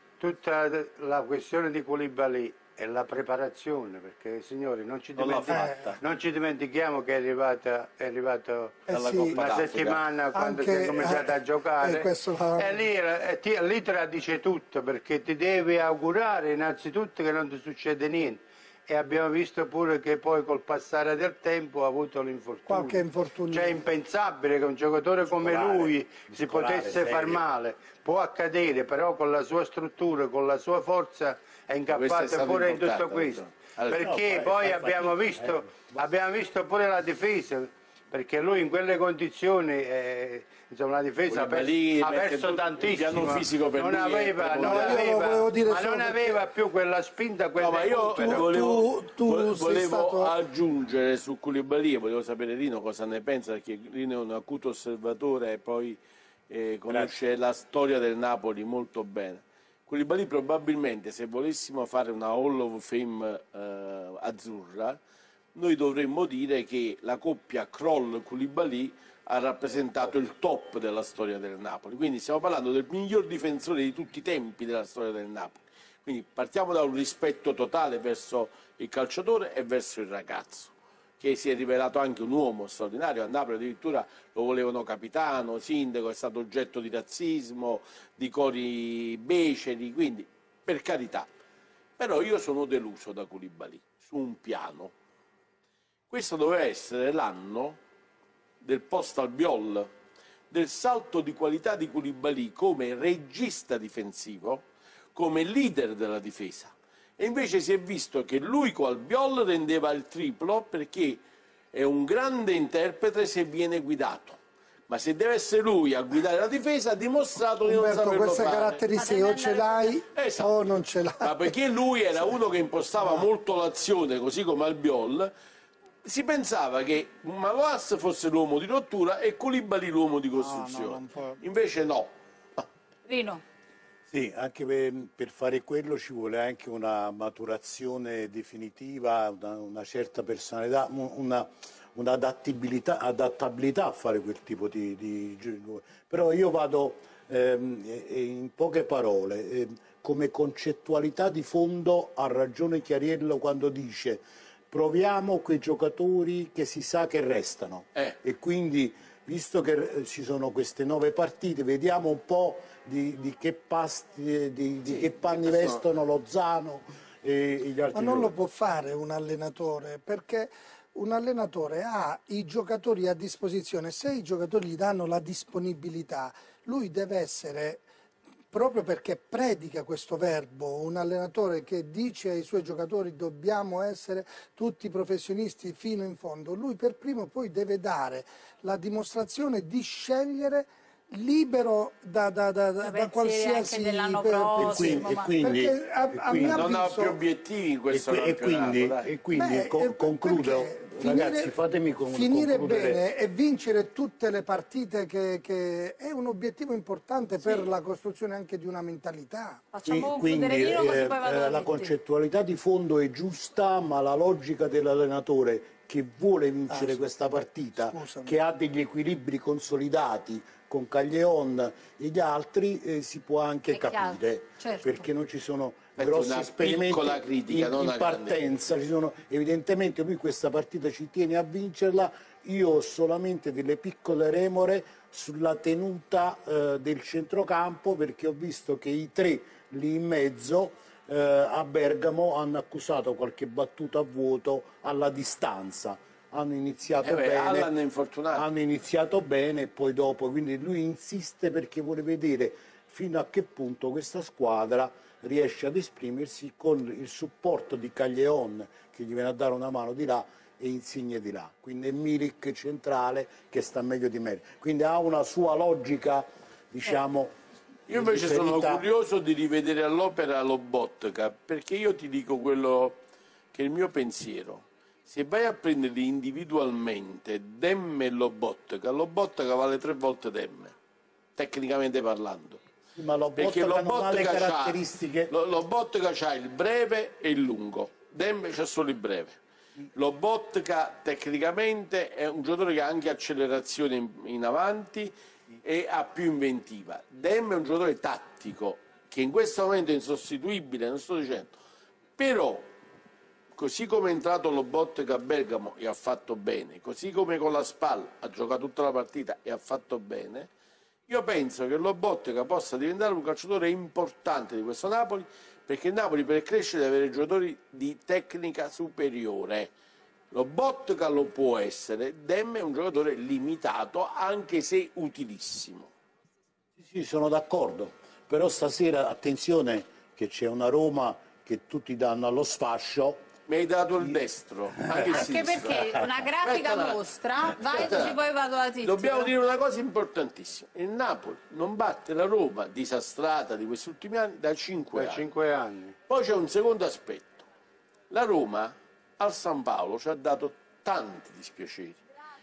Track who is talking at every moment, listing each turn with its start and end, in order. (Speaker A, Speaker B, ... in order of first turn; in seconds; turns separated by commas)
Speaker A: 0.2-48.5, Speaker B: 5.1-6.0, Speaker C: 5.5-5.9, Speaker C: 8.9-9.6, Speaker B: 8.9-10.0, Speaker C: 10.3-12.8, Speaker C: 22.7-23.8, Speaker D: 25.2-27.4, Speaker B: 31.9-34.1, Speaker D: 33.9-36.0, Speaker B: 41.3-45.1, Speaker C: 44.6-46.4, Speaker B: 47.6-56.0, Speaker C: 48.1-50.3, Speaker B: 56.5-65.0, Speaker B: 65.5-91.3, Speaker B: 92.0-94.9, Speaker B: 96.1-97.8, Speaker B: 98.6-99.9, Speaker B: 100.5-111.2, Speaker B: 111.7-118.8, Speaker C: 117.6-121.5, Speaker E: 118.9-120.0, Speaker B: 120.1-125.3, Speaker C: 123.0-123.3, Speaker B: 126.0-132.6, Speaker C: 130.3-131.4, Speaker E: 133.1-133.4, Speaker D: 134.1-168.3, Speaker B: 164.8-165.8, Speaker C: 167.9-177.8, Speaker C: 178.5-197.2, Speaker E: 192.8-195.4, Speaker D: 194.6-196.8, Speaker B: 196.5-199.1, Speaker D: 197.9-203.0, Speaker C: 199.3-201.5, Speaker C: 202.1-209.7, Speaker E: 207.4-207.7, Speaker E: 209.7-211.9, Speaker D: 209.8-247.7, Speaker C: 216.7-218.3, Speaker E: 223.7-225.1, Speaker B: 226.0-228.4, Speaker B: 247.0-248.4, Speaker D: 248.3-267.3, Speaker D: 267.9-268.9, Speaker B: 267.9-273.0, Speaker B: 273.5-280.7, Speaker B: 281.4-282.6, Speaker D: 282.9-285.3, Speaker B: 283.4-289.4, Speaker B: 289.9-301.5, Speaker B: 302.2-302.7, Speaker B: 303.5-310.5, Speaker B: 311.1-319.7, Speaker B: 320.3-325.9, Speaker D: 326.8-333.2, Speaker B: 333.5-338.2, Speaker E: 335.0-339.3, Speaker B: 338.8-345.3, Speaker A: 344.9-345.9, Speaker B: 346.1-347.5, Speaker B: 348.1-352.0